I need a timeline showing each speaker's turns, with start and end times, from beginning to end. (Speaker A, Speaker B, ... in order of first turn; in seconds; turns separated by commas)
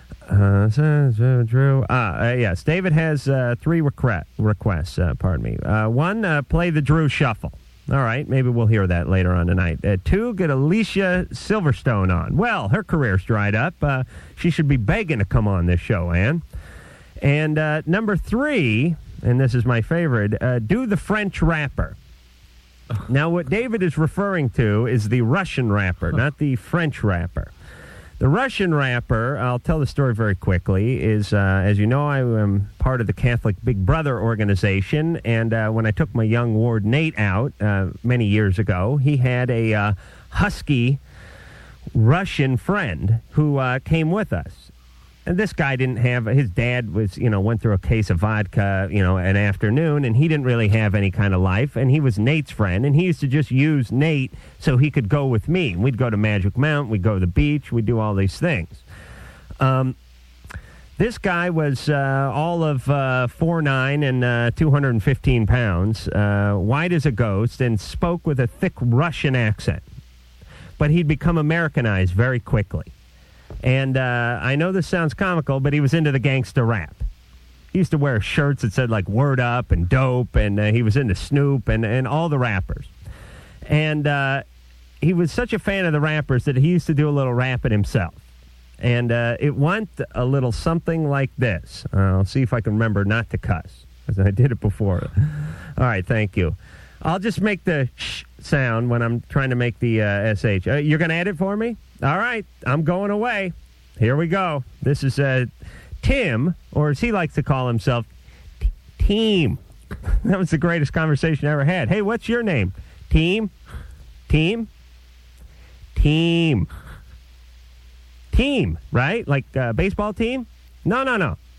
Speaker A: 0.3-16.4, Speaker A: 17.2-22.0, Speaker A: 23.1-27.5, Speaker A: 28.2-41.0, Speaker A: 41.9-44.7, Speaker A: 45.3-58.8, Speaker A: 59.6-60.0, Speaker A: 61.0-69.8, Speaker A: 70.8-72.9, Speaker A: 73.6-77.0, Speaker A: 77.7-82.9, Speaker A: 83.7-84.4, Speaker A: 85.0-88.2, Speaker A: 88.8-105.5, Speaker A: 106.0-108.1, Speaker A: 108.6-109.6, Speaker A: 110.2-113.5, Speaker A: 114.3-114.7, Speaker A: 116.0-116.7, Speaker A: 118.3-121.4